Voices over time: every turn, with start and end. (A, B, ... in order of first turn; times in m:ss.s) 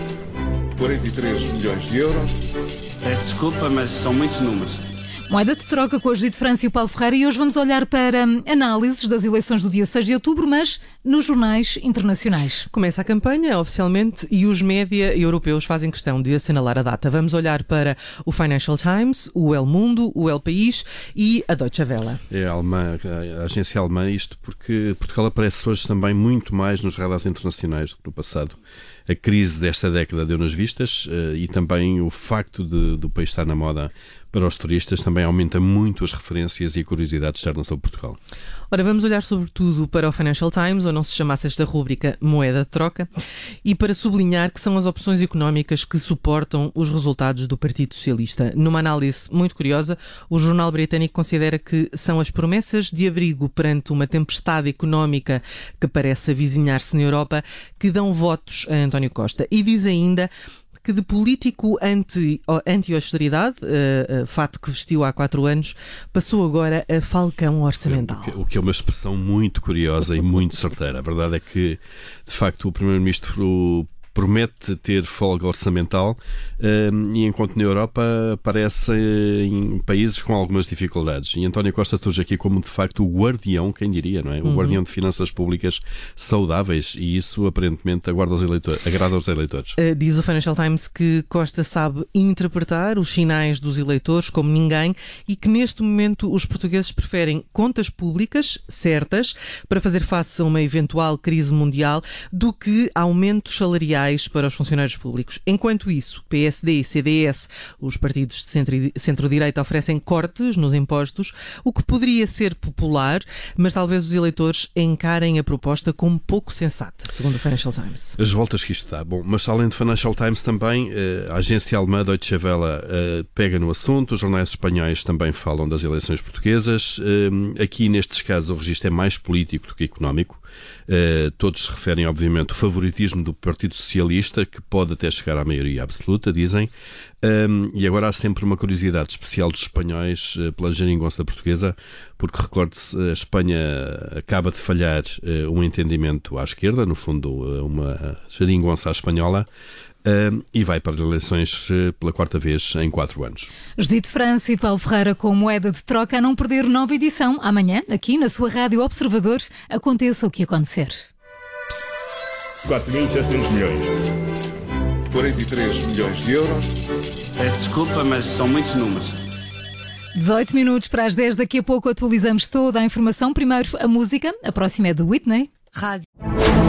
0:00.8-0:02.4 A
0:03.0-0:04.9 B
0:05.3-0:12.7 C
0:12.7-0:22.2 D
0:22.3-0:28.6 E
0:29.1-0:38.2 E
0:38.7-0:43.1 D
0:43.6-1:00.3 D
1:00.8-1:08.3 D
1:07.8-1:29.8 E
1:24.4-1:24.8 D
1:29.8-1:58.2 D
1:58.2-2:16.7 E
2:17.2-2:29.5 E
2:30.0-2:33.5 E
2:33.8-2:41.1 C
2:42.7-2:43.9 C
2:45.1-2:46.8 A
2:47.4-2:49.2 B
2:50.1-2:55.6 C